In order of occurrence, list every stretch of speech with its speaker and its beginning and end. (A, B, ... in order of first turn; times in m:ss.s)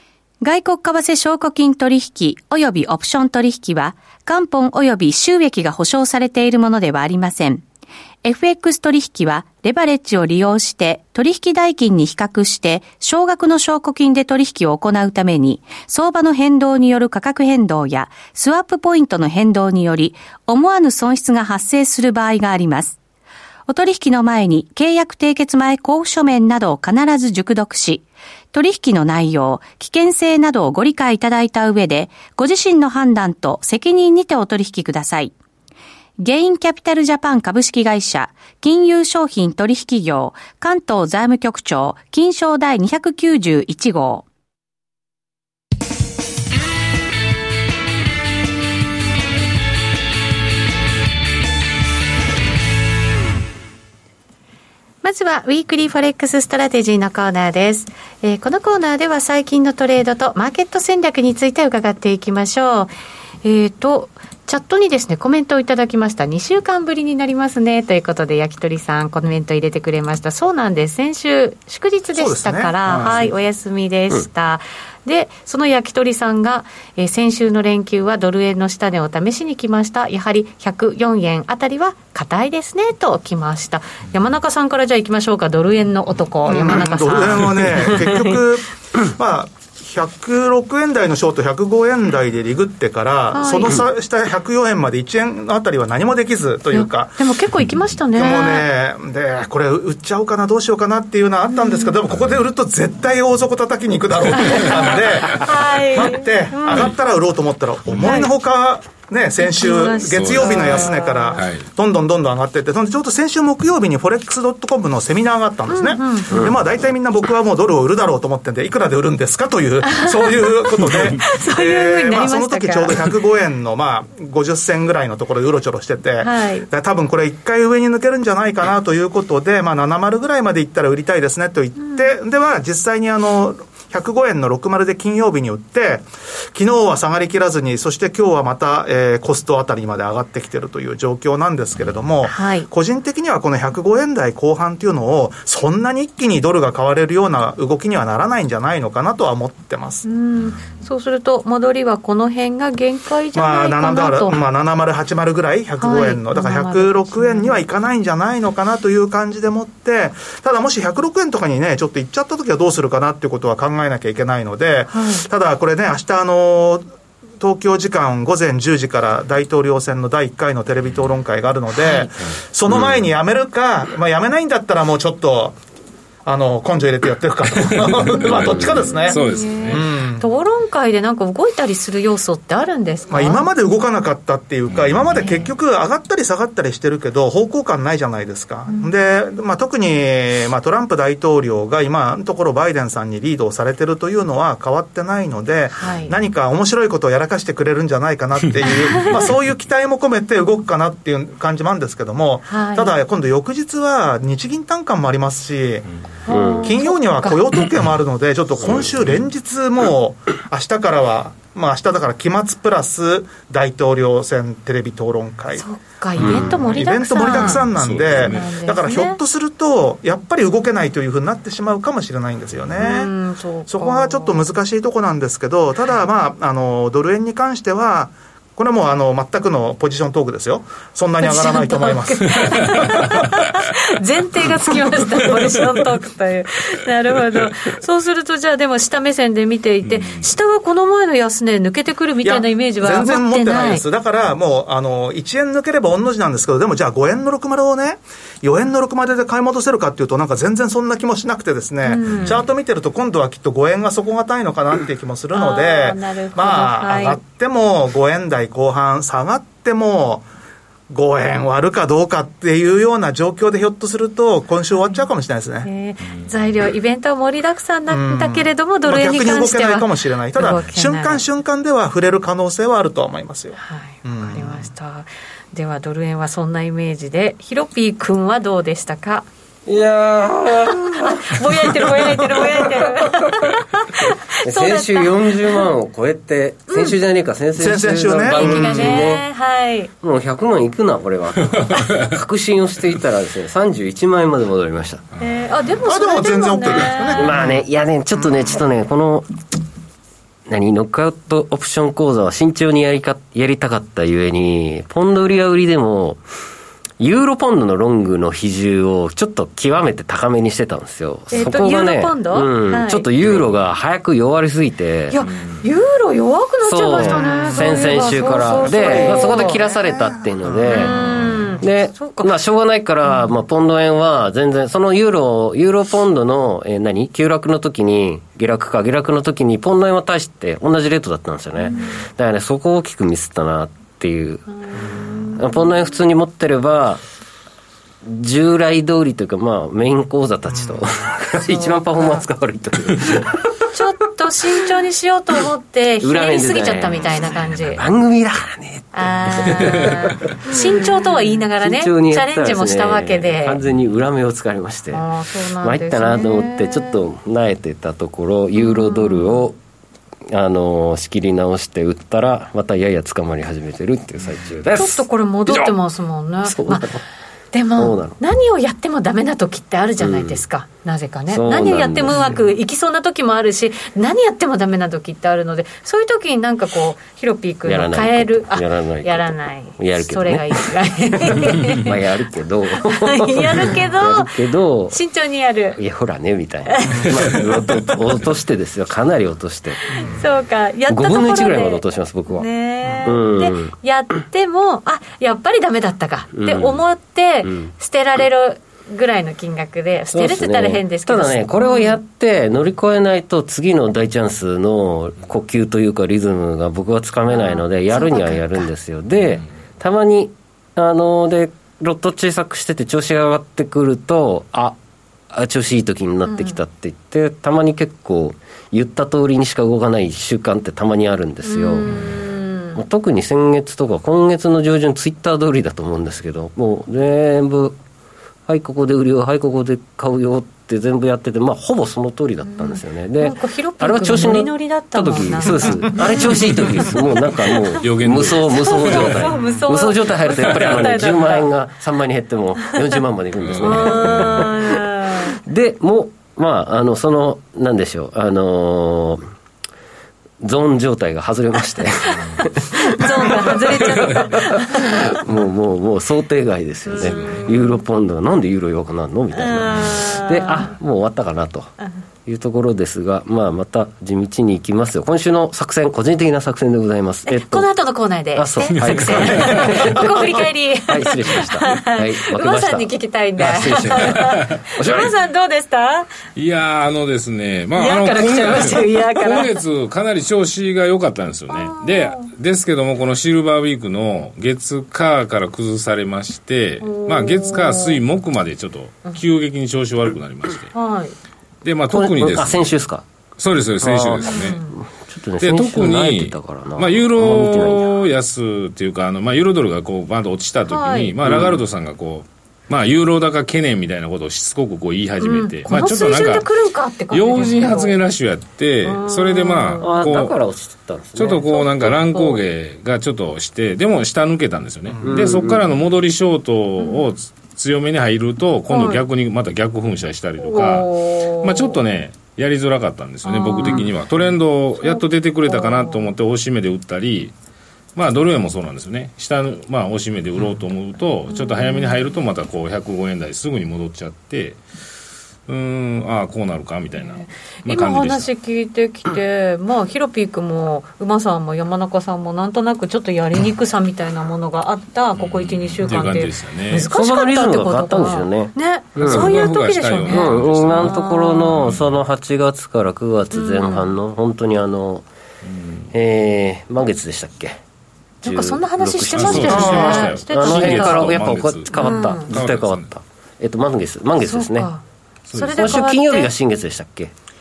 0:00.4-0:07.6 A
0:08.2-0:23.0 A
0:23.7-0:35.3 A
0:36.2-0:44.2 A
0:55.0-1:02.9 A
1:03.4-1:28.4 A
1:12.1-1:13.2 B
1:12.9-1:13.2 C
1:26.4-1:37.2 B
1:33.3-1:33.8 A
1:36.7-1:38.7 A
1:38.2-2:30.0 B
1:44.4-1:44.8 A
1:45.4-1:46.9 A
1:46.7-1:46.9 C
1:48.0-1:48.3 A
1:49.4-1:51.4 A
1:50.1-1:51.7 C
1:55.7-1:56.5 A
1:59.9-2:03.0 A
2:06.2-2:06.7 A
2:22.2-2:22.7 A
2:30.0-2:34.4 A
2:33.4-2:46.8 B
2:35.8-2:37.6 A
2:44.9-2:45.2 A
2:47.4-2:55.6 B
2:56.2-2:59.2 B
2:58.1-2:59.8 C
2:58.4-2:58.7 D
2:59.0-3:03.4 A
2:59.7-3:00.2 B
3:03.1-3:25.8 B
3:04.7-3:05.4 C
3:15.7-3:16.1 A
3:18.7-3:19.1 A
3:22.5-3:22.9 A
3:26.2-3:27.4 A
3:26.3-3:26.7 D
3:26.6-3:35.6 B
3:28.6-3:29.2 C
3:35.6-3:39.2 A
3:36.2-3:43.1 B
3:36.2-3:36.6 D
3:37.3-3:38.5 C
3:42.8-3:44.4 A
3:43.7-3:52.9 B
3:51.2-4:03.8 A
3:59.9-4:00.3 C
4:02.2-4:20.2 B
4:11.8-4:12.4 A
4:15.3-4:17.2 A
4:20.9-4:25.7 B
4:24.8-4:25.0 A
4:25.6-4:31.2 A
4:27.9-4:34.7 B
4:33.6-4:39.2 A
4:39.7-4:43.5 D
4:40.8-4:45.7 A
4:44.4-4:49.2 D
4:46.7-4:47.0 A
4:47.6-4:49.0 B
4:48.2-4:49.9 A
4:50.0-4:55.0 D
4:55.2-4:57.3 A
4:55.8-4:57.6 B
4:57.1-4:59.3 D
5:00.5-5:06.2 D
5:07.0-5:15.2 D
5:11.3-5:13.1 A
5:13.2-5:13.5 C
5:15.1-5:19.6 A
5:15.2-5:15.6 C
5:16.6-5:21.0 D
5:16.9-5:20.6 B
5:20.6-5:21.5 C
5:20.7-5:22.4 A
5:21.6-5:37.0 D
5:34.5-5:35.7 A
5:38.0-5:43.6 D
5:40.5-5:40.9 B
5:41.5-5:42.2 A
5:43.7-5:47.8 A
5:46.0-5:55.1 D
5:48.9-5:53.6 A
5:54.9-5:57.0 A
5:55.6-5:59.6 D
5:58.6-5:59.5 A
6:00.3-6:05.7 D
6:04.8-6:06.9 A
6:06.4-6:07.0 D
6:07.5-6:22.0 A
6:07.8-6:08.2 D
6:10.0-6:10.4 D
6:11.3-6:12.3 D
6:17.6-6:20.6 D
6:21.2-6:25.0 D
6:22.9-6:24.3 A
6:24.9-6:25.8 A
6:25.8-6:30.1 D
6:26.7-6:27.1 A
6:30.0-6:42.0 A
6:30.9-6:32.5 D
6:32.8-6:33.1 B
6:33.0-6:33.7 D
6:36.3-6:36.8 D
6:37.4-6:37.7 D
6:40.1-6:54.8 D
6:47.3-6:48.7 A
6:55.3-7:02.2 D
6:56.3-6:56.6 A
7:01.4-7:02.8 A
7:02.8-7:07.8 D
7:08.5-7:29.2 D
7:12.4-7:16.8 A
7:17.4-7:17.8 A
7:17.8-7:19.3 C
7:18.4-7:21.5 A
7:20.3-7:21.2 C
7:23.4-7:24.5 C
7:23.6-7:25.4 A
7:30.4-7:41.7 D
7:32.3-7:35.2 A
7:36.9-7:37.8 A
7:39.3-7:40.7 A
7:42.3-7:47.7 D
7:47.3-7:56.1 A
7:48.4-7:55.1 D
7:48.7-7:49.9 C
7:53.7-7:55.1 C
7:56.3-8:10.7 C
7:57.8-7:59.5 A
8:01.5-8:02.3 A
8:06.8-8:08.0 A
8:10.7-8:11.1 A
8:11.6-8:12.7 C
8:11.9-8:13.0 D
8:13.4-8:14.6 C
8:13.8-8:17.9 D
8:14.2-8:14.8 A
8:15.4-8:26.5 C
8:20.7-8:21.1 A
8:21.2-8:21.6 D
8:25.2-8:27.9 A
8:27.1-8:30.4 C
8:28.8-8:30.1 A
8:29.8-8:31.6 D
8:31.2-8:47.3 C
8:31.5-8:32.4 A
8:34.9-8:35.4 B
8:35.0-8:35.8 D
8:36.8-8:37.1 A
8:38.7-8:39.0 A
8:40.4-8:41.8 A
8:43.2-8:43.9 A
8:44.8-8:46.1 A
8:48.0-8:54.6 C
8:51.3-8:52.2 A
8:55.5-8:58.3 C
8:56.9-9:11.7 A
9:05.2-9:06.9 C
9:06.9-9:09.4 D
9:09.0-9:11.0 C
9:10.1-9:15.1 D
9:11.5-9:12.0 C
9:13.3-9:13.9 A
9:15.5-9:15.8 C
9:15.9-9:17.6 D
9:18.2-9:21.1 A
9:18.2-9:24.7 D
9:19.1-9:22.9 C
9:19.5-9:20.1 B
9:21.7-9:22.3 A
9:24.2-9:26.3 A
9:25.3-9:25.8 C
9:25.5-9:27.1 D